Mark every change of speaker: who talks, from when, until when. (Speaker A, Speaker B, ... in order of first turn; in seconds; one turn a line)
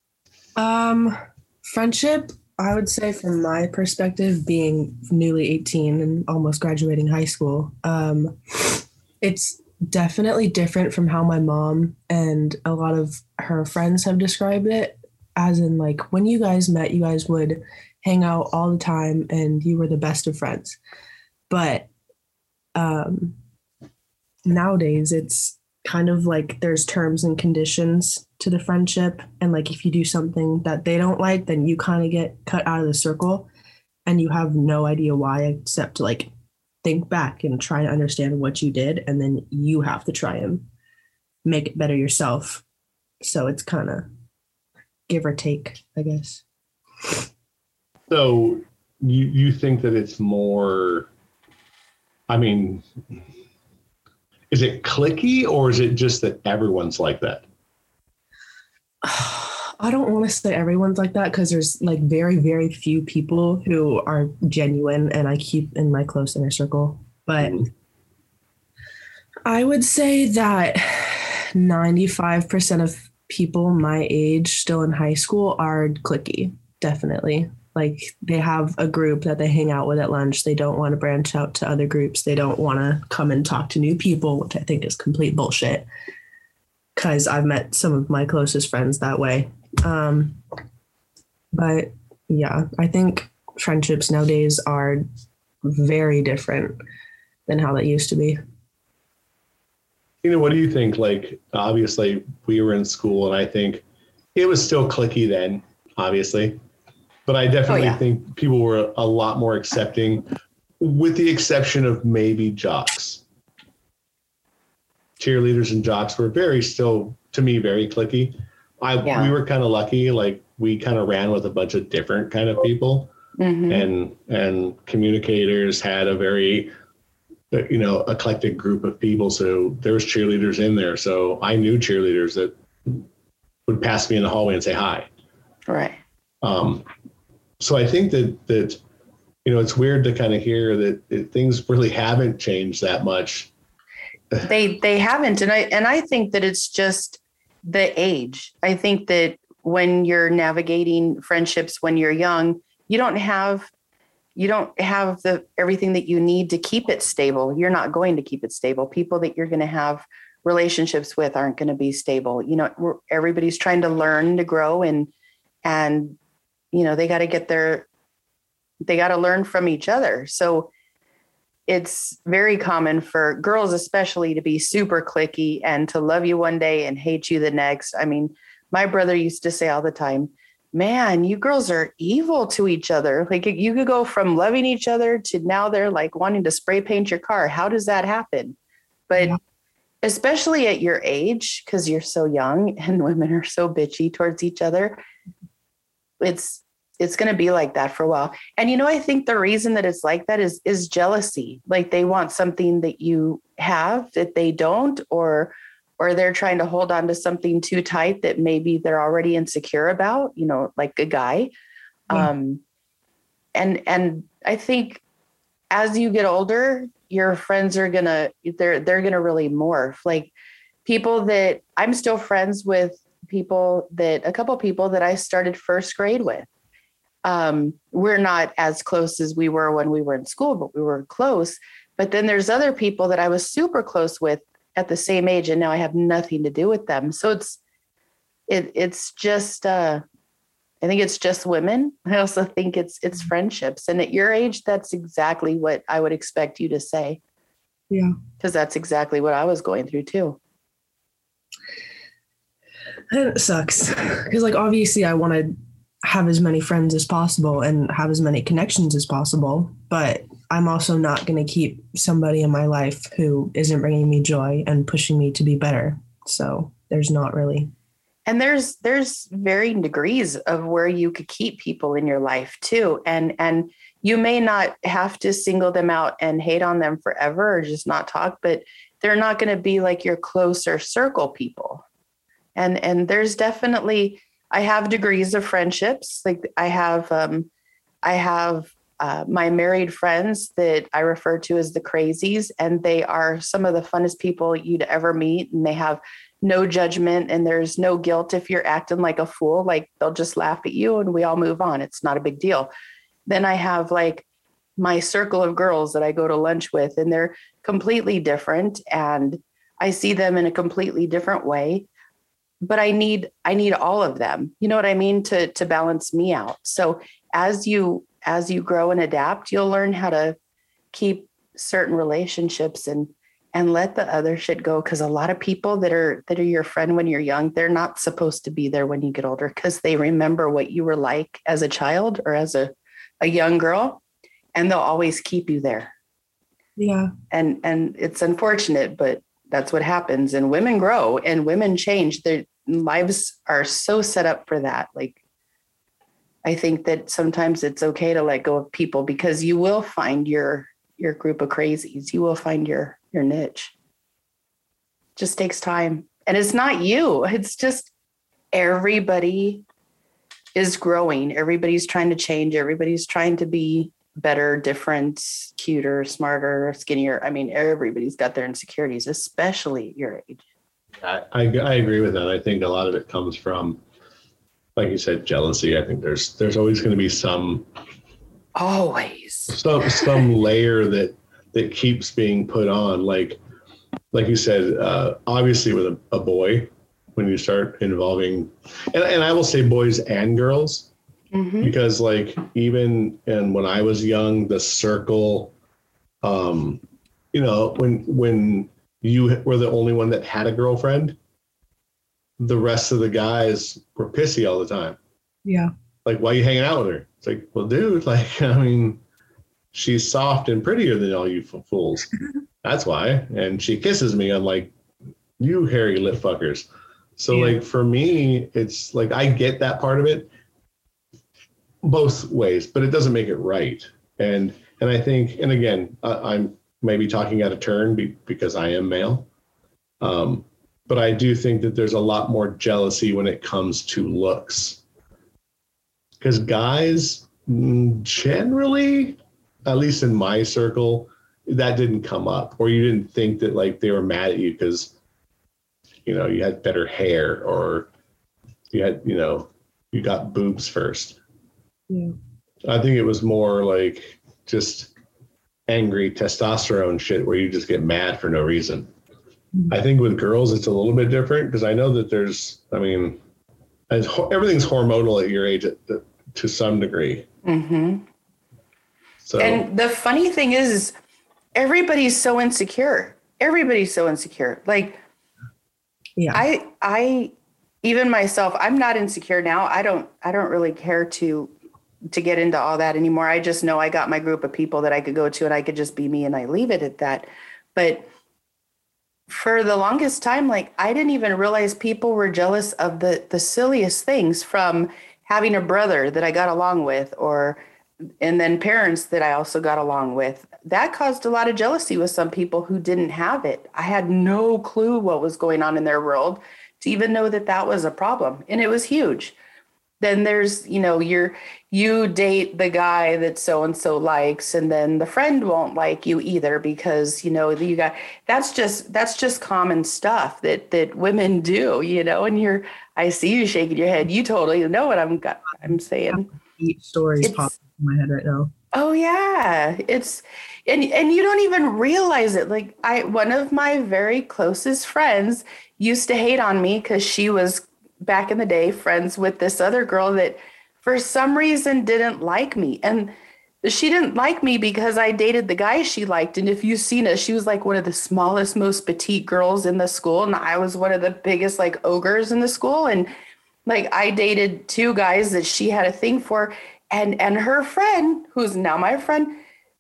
Speaker A: 0.6-20.8
Speaker A: 21.5-21.9
Speaker A: 22.8-23.4
Speaker A: 24.5-33.5
Speaker A: 34.1-36.3
Speaker A: 36.8-40.7
Speaker A: 41.5-42.6
Speaker A: 43.2-44.1
Speaker A: 45.1-46.4
Speaker B: 48.1-51.1
Speaker B: 52.3-52.9
Speaker B: 54.5-57.5
Speaker A: 59.0-67.6
Speaker B: 67.4-67.7
Speaker A: 69.5-85.9
Speaker A: 87.0-90.4
Speaker A: 91.5-95.1
Speaker A: 95.6-96.8
Speaker A: 97.5-98.4
Speaker B: 100.2-103.8
Speaker B: 104.3-106.6
Speaker B: 107.3-110.3
Speaker C: 107.7-108.0
Speaker B: 110.8-113.2
Speaker B: 115.2-123.1
Speaker C: 119.0-119.3
Speaker C: 123.4-123.9
Speaker B: 123.7-126.7
Speaker B: 127.5-133.1
Speaker B: 133.7-135.1
Speaker C: 135.7-136.0
Speaker B: 136.4-136.8
Speaker B: 137.6-138.8
Speaker B: 139.4-143.5
Speaker C: 144.4-153.7
Speaker C: 154.4-165.1
Speaker C: 165.7-166.2
Speaker C: 166.7-167.9
Speaker C: 168.8-170.7
Speaker C: 171.7-188.6
Speaker C: 189.1-189.4
Speaker C: 190.0-195.0
Speaker C: 196.2-211.5
Speaker C: 212.1-212.6
Speaker C: 213.6-215.0
Speaker C: 215.7-220.3
Speaker C: 220.8-226.5
Speaker C: 227.2-237.6
Speaker C: 238.5-240.0
Speaker C: 240.8-247.2
Speaker A: 247.9-248.2
Speaker C: 248.4-250.4
Speaker A: 253.1-267.7
Speaker C: 268.3-281.8
Speaker C: 282.6-287.5
Speaker C: 288.0-302.7
Speaker C: 303.3-304.2
Speaker C: 304.8-311.9
Speaker C: 312.6-320.4
Speaker C: 320.9-334.0
Speaker C: 334.6-335.9
Speaker A: 336.8-337.1
Speaker C: 337.3-345.2
Speaker C: 346.4-353.7
Speaker C: 355.2-357.9
Speaker C: 358.5-359.6
Speaker C: 360.6-370.4
Speaker B: 371.0-373.8
Speaker B: 374.8-377.7
Speaker C: 378.6-380.2
Speaker B: 379.5-383.4
Speaker B: 384.1-390.9
Speaker C: 391.3-391.7
Speaker B: 391.6-395.5
Speaker B: 396.2-396.8
Speaker B: 397.3-401.2
Speaker B: 402.4-405.0
Speaker A: 405.4-405.7
Speaker B: 406.1-409.0
Speaker B: 409.7-412.1
Speaker B: 412.6-414.7
Speaker B: 415.4-416.7
Speaker B: 417.2-420.3
Speaker B: 421.8-429.3
Speaker B: 430.0-434.8
Speaker B: 436.2-444.9
Speaker B: 446.1-447.9
Speaker B: 448.7-451.2
Speaker B: 452.6-454.9
Speaker B: 455.7-458.9
Speaker B: 459.7-463.2
Speaker B: 463.9-467.3
Speaker C: 467.4-468.1
Speaker B: 469.2-469.6
Speaker C: 469.4-470.9
Speaker C: 471.6-475.0
Speaker A: 476.2-476.4
Speaker C: 476.3-477.3
Speaker C: 477.8-481.5
Speaker C: 482.1-488.1
Speaker C: 489.3-497.6
Speaker C: 498.2-509.4
Speaker C: 510.0-526.3
Speaker A: 526.1-528.5
Speaker C: 527.2-527.5
Speaker C: 528.7-553.1
Speaker C: 553.7-559.4